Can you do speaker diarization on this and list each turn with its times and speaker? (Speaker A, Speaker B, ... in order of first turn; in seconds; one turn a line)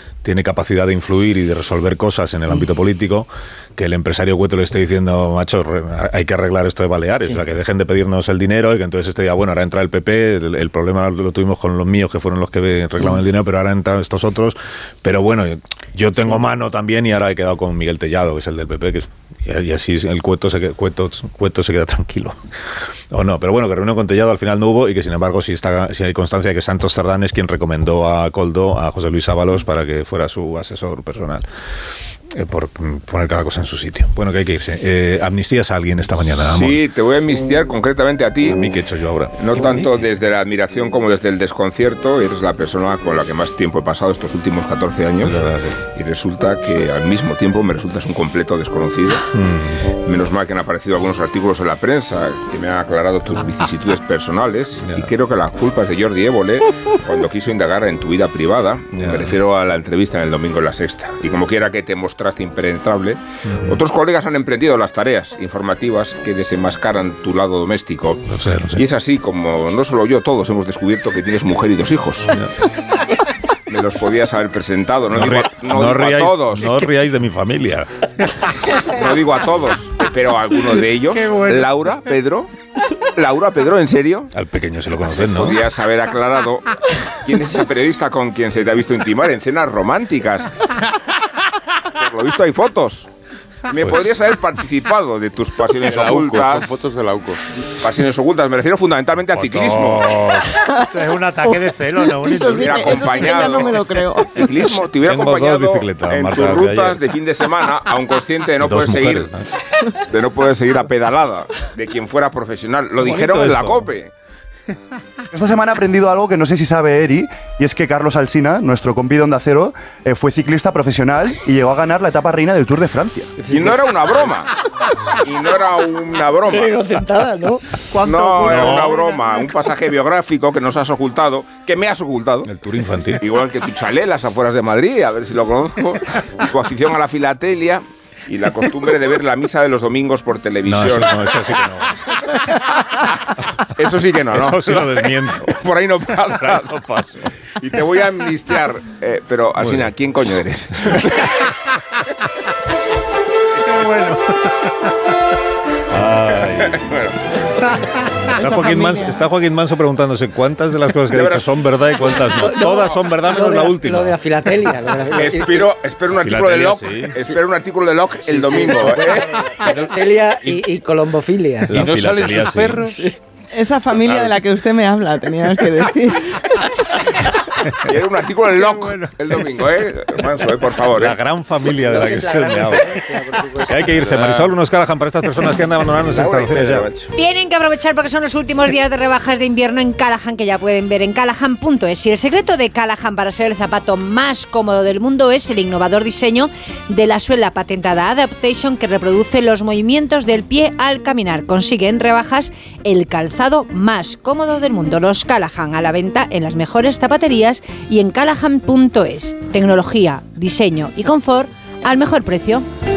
Speaker A: 0.2-22.4
Speaker A: 23.1-31.4
Speaker A: 32.3-36.8
Speaker B: 36.5-38.6
Speaker A: 38.5-39.9
Speaker B: 39.4-45.4
Speaker A: 45.2-45.8
Speaker B: 45.9-49.2
Speaker A: 49.3-49.8
Speaker B: 50.0-72.3
Speaker A: 54.8-55.1
Speaker A: 58.9-59.4
Speaker A: 68.3-68.8
Speaker B: 73.7-76.9
Speaker A: 75.1-77.9
Speaker B: 78.8-82.5
Speaker C: 81.3-81.6
Speaker B: 83.1-84.3
Speaker A: 84.3-85.6
Speaker B: 85.2-90.8
Speaker B: 91.8-93.1
Speaker B: 93.7-96.8
Speaker D: 95.8-97.4
Speaker B: 97.7-100.2
Speaker A: 99.3-100.5
Speaker C: 100.8-103.3
Speaker E: 101.4-104.5
Speaker B: 102.5-109.3
Speaker A: 105.0-107.0
Speaker A: 108.6-109.5
Speaker B: 109.9-114.1
Speaker A: 113.0-113.9
Speaker F: 115.3-123.3
Speaker G: 123.4-123.7
Speaker B: 123.5-124.5
Speaker B: 125.2-126.8
Speaker G: 126.5-127.8
Speaker B: 127.8-132.5
Speaker F: 128.0-129.2
Speaker A: 132.4-133.2
Speaker B: 133.2-141.3
Speaker A: 140.7-142.2
Speaker B: 143.7-146.8
Speaker A: 144.3-145.6
Speaker A: 146.3-147.3
Speaker B: 147.6-151.3
Speaker A: 149.6-149.9
Speaker A: 150.9-151.2
Speaker C: 153.7-154.2
Speaker A: 155.9-156.8
Speaker B: 156.6-157.4
Speaker E: 158.3-159.2
Speaker A: 158.4-164.2
Speaker B: 161.1-161.5
Speaker G: 162.3-165.7
Speaker B: 165.1-169.4
Speaker A: 166.2-167.2
Speaker G: 168.2-171.8
Speaker A: 171.7-172.8
Speaker D: 171.7-172.9
Speaker G: 172.8-173.1
Speaker E: 173.5-176.5
Speaker B: 177.8-181.2
Speaker A: 180.9-183.1
Speaker G: 181.8-183.8
Speaker A: 183.6-186.9
Speaker D: 183.8-184.5
Speaker B: 186.1-187.1
Speaker H: 187.2-212.6